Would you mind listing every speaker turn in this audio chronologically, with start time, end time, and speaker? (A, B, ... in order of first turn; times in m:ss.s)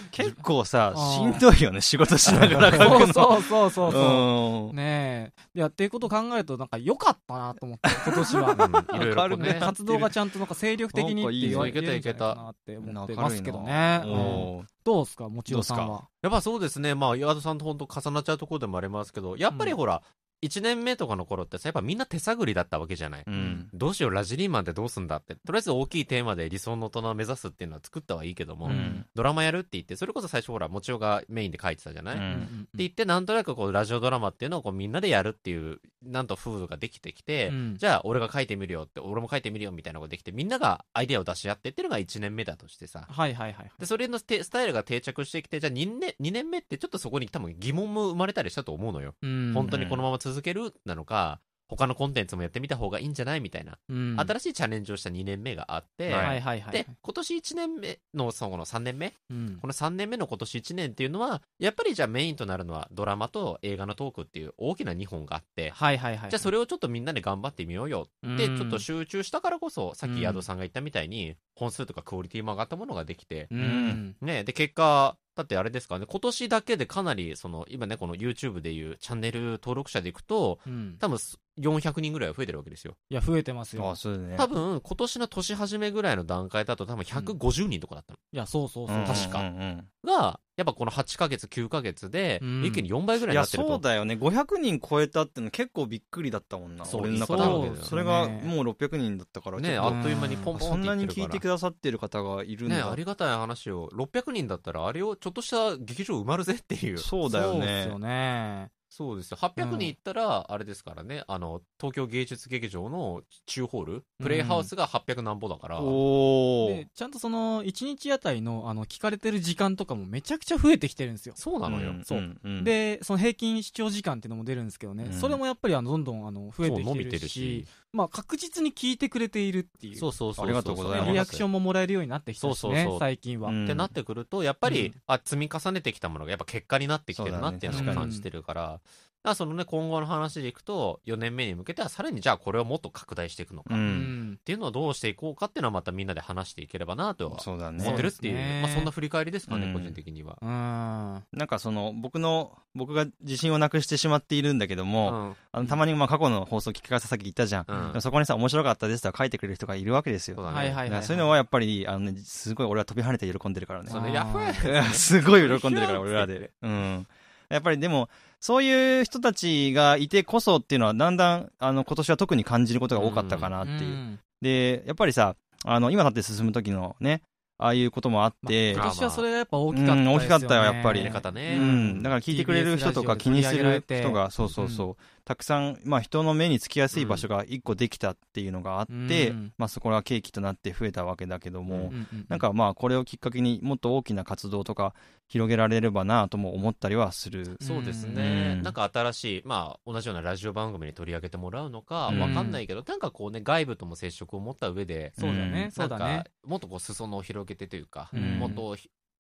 0:00.1-0:04.7 A
0:00.9-0:01.4 B
0:02.2-0:03.0 C
0:02.8-0:16.1 B
0:07.9-0:10.1 A
0:08.6-0:09.7 C
0:10.9-0:11.8 A
0:11.4-0:12.4 C
0:12.8-0:14.7 A
0:14.1-0:14.5 C
0:15.5-0:16.0 A
0:16.2-0:43.1 C
0:19.5-0:19.8 B
0:23.3-0:23.7 A
0:23.4-0:23.6 B
0:28.6-0:29.0 B
0:28.7-0:29.0 A
0:32.1-0:32.5 A
0:32.3-0:32.9 B
0:37.5-0:37.8 B
0:43.1-0:43.8 B
0:43.8-1:13.5 C
0:49.2-0:49.8 B
0:49.7-0:50.0 A
0:53.9-0:54.3 B
0:56.1-0:56.4 A
0:56.2-0:56.9 B
0:59.3-0:59.6 B
1:05.7-1:06.5 B
1:08.2-1:08.8 B
1:10.0-1:10.4 B
1:13.5-1:14.2 B
1:13.6-1:14.0 A
1:14.2-1:23.0 C
1:20.6-1:21.0 B
1:23.1-1:23.9 B
1:23.8-1:24.5 A
1:24.4-1:28.2 C
1:28.3-1:29.3 B
1:28.9-1:29.9 A
1:29.0-1:29.5 C
1:30.0-1:33.8 C
1:32.4-1:32.8 B
1:33.3-1:43.0 A
1:36.8-1:38.0 C
1:37.3-1:38.5 B
1:39.6-1:41.4 C
1:39.8-1:40.5 B
1:42.6-1:47.1 C
1:47.0-1:48.0 A
1:47.2-1:48.7 B
1:48.9-1:56.0 C
1:49.6-1:49.9 B
1:54.2-1:54.7 B
1:55.8-1:56.8 A
1:56.6-2:01.4 B
2:01.4-2:02.0 C
2:01.7-2:02.7 A
2:02.1-2:10.1 B
2:05.0-2:05.4 A
2:06.6-2:07.7 C
2:10.0-2:11.4 C
2:10.4-2:11.3 A
2:10.9-2:13.6 B
2:12.4-2:13.1 C
2:13.4-2:13.9 A
2:13.6-2:30.4 C
2:14.6-2:14.9 B
2:17.1-2:18.1 A
2:17.7-2:18.3 B
2:23.7-2:24.1 A
2:23.8-2:24.4 B
2:27.3-2:28.1 A
2:27.8-2:28.9 B
2:29.5-2:30.0 A
2:30.4-2:31.2 B
2:31.3-2:44.0 A
2:35.0-2:35.5 C
2:37.7-2:38.0 C
2:37.7-2:38.0 B
2:40.3-2:40.8 C
2:40.5-2:41.3 B
2:43.9-2:46.5 C
2:43.9-2:44.6 B
2:44.6-2:58.8 A
2:52.9-2:53.5 C
2:53.6-2:54.2 B
2:58.4-3:04.8 B
2:58.7-2:59.2 C
2:59.7-3:17.6 A
3:00.9-3:02.1 C
3:06.9-3:07.2 C
3:08.9-3:09.5 B
3:11.7-3:11.9 C
3:11.9-3:12.4 B
3:17.6-3:18.1 B
3:17.6-3:25.2 C
3:18.1-3:18.7 A
3:22.1-3:22.4 A
3:22.1-3:22.6 B
3:25.2-3:25.7 A
3:25.2-3:26.3 B
3:25.7-3:28.9 C
3:28.1-3:28.6 B
3:28.1-3:28.6 A